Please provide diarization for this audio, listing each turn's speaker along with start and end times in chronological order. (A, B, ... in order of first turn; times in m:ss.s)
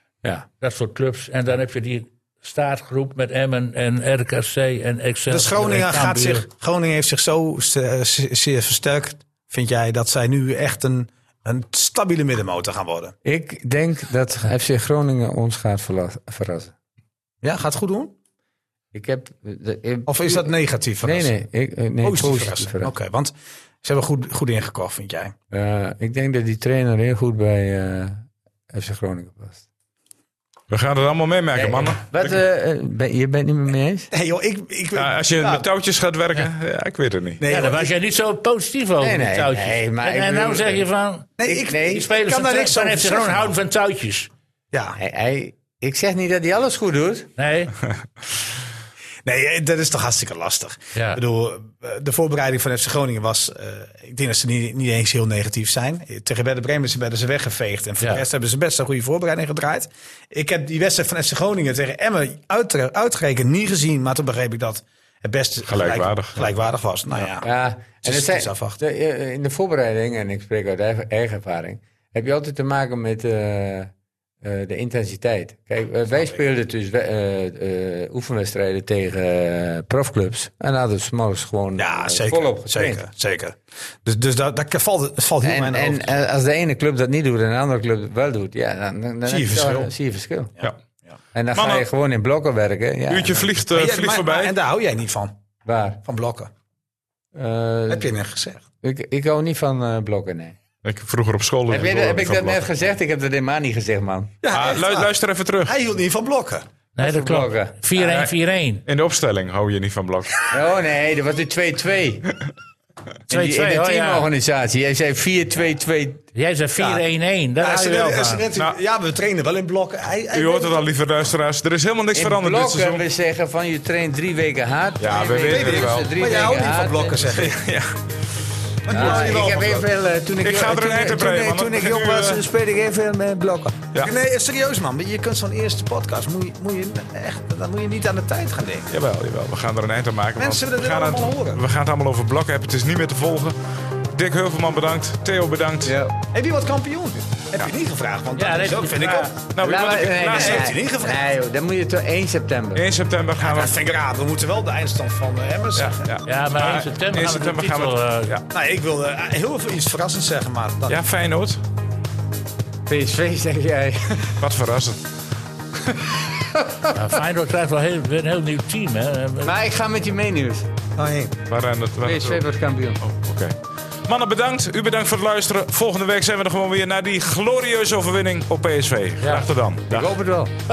0:00.6-0:06.4 A
0:05.3-0:13.1 B
0:13.2-0:16.7 C
0:17.4-0:18.1 B
0:18.9-0:20.5 C
0:20.1-0:21.3 B
0:21.0-0:22.9 C
0:22.0-0:25.3 B
0:25.5-0:29.6 C
0:30.7-0:32.4 D
0:31.5-0:34.1 C
0:34.1-0:35.6 B
0:34.9-0:37.4 D
0:37.4-0:37.9 B
0:37.5-0:44.3 A
0:39.0-0:40.8 C
0:41.4-0:43.5 B
0:41.5-0:42.0 C
0:44.7-0:45.0 B
0:45.0-0:47.3 C
0:47.4-0:47.7 A
0:49.2-1:08.8 B
0:50.9-0:51.2 A
1:05.7-1:06.5 D
1:07.4-1:23.0 C
1:21.8-1:26.1 B
1:25.4-1:30.5 C
1:29.3-1:29.9 B
1:30.6-1:31.1 B
1:31.3-1:33.5 C
1:31.5-1:31.8 D
1:33.1-1:34.5 D
1:33.7-1:35.3 B
1:35.6-1:36.0 C
1:36.0-1:36.5 B
1:37.3-1:38.1 C
1:37.9-1:38.6 B
1:38.8-1:40.6 C
1:40.8-1:42.7 D
1:41.7-1:44.3 C
1:44.4-1:45.1 B
1:44.5-1:45.7 D
1:45.6-1:46.7 B
1:47.0-1:48.8 A
1:47.0-1:48.2 C
1:48.8-1:50.4 D
1:50.5-1:52.3 C
1:53.3-1:54.3 A
1:53.3-1:56.2 C
1:56.3-1:58.4 A
1:56.8-1:57.0 B
1:57.6-2:00.9 B
2:00.3-2:03.0 D
2:02.1-2:07.4 C
2:05.0-2:06.1 D
2:05.5-2:07.6 B
2:07.4-2:08.0 D
2:08.8-2:09.8 B
2:08.9-2:11.4 C
2:10.4-2:12.4 D
2:11.2-2:18.9 B
2:18.9-2:23.6 D
2:20.4-2:21.6 B
2:24.1-2:26.0 D
2:25.8-2:26.1 C
2:26.3-2:29.3 B
2:28.4-2:29.3 A
2:29.5-2:30.7 D
2:29.6-2:32.8 C
2:30.3-2:31.2 B
2:32.8-2:33.7 D
2:33.4-2:36.0 B
2:35.7-2:38.4 D
2:36.2-2:38.3 A
2:38.5-2:41.0 B
2:40.9-2:41.6 D
2:42.8-2:44.4 C
2:44.4-2:45.0 D
2:45.9-2:46.9 C
2:46.9-2:49.5 A
2:49.4-2:50.7 C
2:51.0-2:51.4 B
2:51.5-2:52.4 D
2:52.0-2:53.0 C
2:53.0-2:53.5 D
2:54.0-3:00.1 D
2:59.9-3:00.5 C